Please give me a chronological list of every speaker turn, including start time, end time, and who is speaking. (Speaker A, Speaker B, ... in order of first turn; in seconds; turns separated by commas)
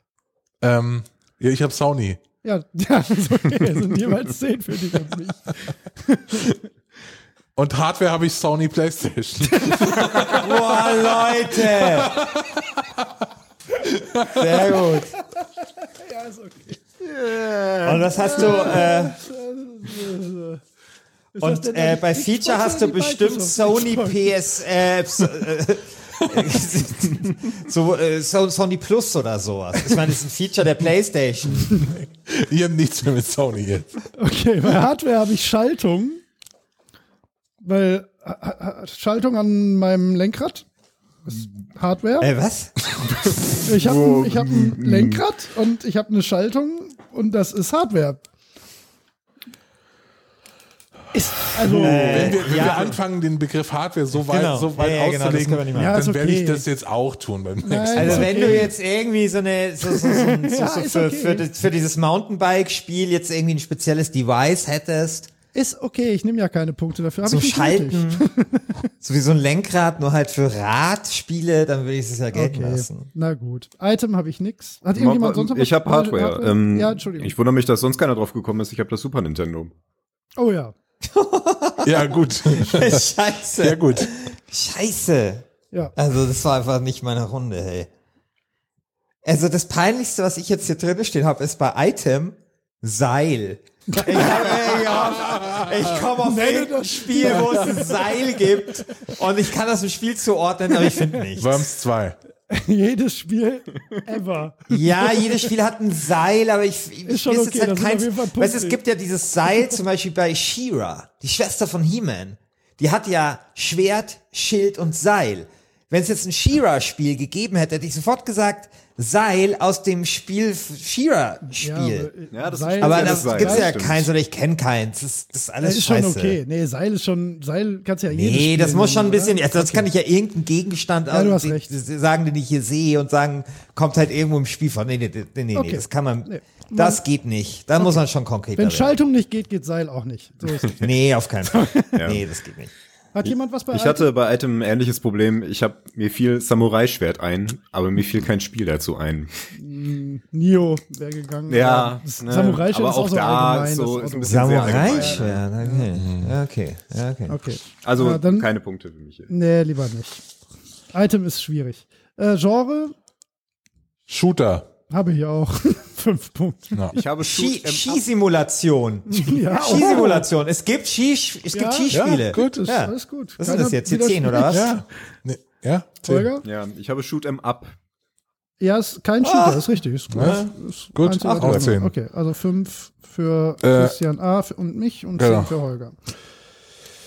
Speaker A: 0.6-2.2, Speaker B: 2.4-6.6, Speaker A: 7.6-10.9, Speaker B: 9.5-10.2, Speaker C: 10.1-12.2, Speaker A: 11.7-12.8, Speaker A: 14.2-14.4, Speaker C: 14.3-15.1, Speaker B: 15.4-16.8, Speaker D: 17.0-18.1, Speaker C: 17.8-19.2, Speaker B: 18.1-20.6, Speaker B: 21.4-24.4, Speaker C: 21.4-31.8, Speaker A: 31.8-33.9, Speaker B: 34.2-36.2, Speaker B: 37.6-40.7, Speaker B: 41.3-42.3, Speaker C: 42.2-42.8, Speaker D: 43.2-45.2, Speaker B: 43.6-48.2, Speaker B: 51.1-52.7, Speaker A: 51.6-58.7, Speaker C: 51.7-53.0, Speaker C: 54.2-56.0, Speaker B: 55.8-56.7, Speaker B: 57.6-58.7, Speaker C: 57.9-65.3, Speaker B: 59.9-61.5, Speaker B: 65.5-68.7, Speaker C: 67.2-68.3, Speaker C: 69.0-73.1, Speaker B: 72.3-77.3, Speaker D: 75.0-79.7, Speaker B: 80.4-80.8, Speaker C: 81.0-85.5, Speaker A: 81.8-84.1, Speaker C: 86.0-87.9, Speaker C: 89.2-101.6, Speaker B: 93.9-94.5, Speaker A: 95.2-95.8, Speaker B: 96.2-98.6, Speaker A: 101.4-102.2, Speaker B: 102.5-105.5, Speaker C: 104.7-122.1, Speaker B: 107.1-108.8, Speaker B: 121.5-123.8, Speaker D: 122.3-124.1, Speaker C: 122.8-126.4, Speaker B: 125.6-129.9, Speaker C: 128.1-138.9, Speaker B: 131.1-131.7, Speaker B: 135.6-137.0, Speaker B: 138.6-140.9, Speaker C: 140.8-142.7, Speaker B: 141.5-142.1, Speaker D: 141.9-142.2, Speaker B: 143.1-144.1, Speaker D: 143.2-149.3, Speaker B: 149.6-155.9, Speaker D: 151.5-155.4, Speaker C: 154.2-157.4, Speaker A: 156.0-156.3, Speaker B: 157.3-158.5, Speaker D: 157.8-159.3, Speaker B: 159.3-160.2, Speaker B: 160.9-162.9, Speaker A: 164.1-164.7, Speaker B: 164.9-166.8, Speaker D: 166.9-168.0, Speaker C: 167.2-174.7, Speaker B: 169.1-170.3, Speaker B: 171.5-174.7, Speaker A: 171.9-172.7, Speaker A: 174.5-176.3, Speaker B: 176.1-176.5, Speaker D: 176.4-177.7, Speaker B: 178.6-186.0, Speaker C: 179.2-180.5, Speaker A: 180.1-181.9, Speaker C: 181.2-181.7, Speaker A: 183.6-184.0, Speaker A: 185.2-185.5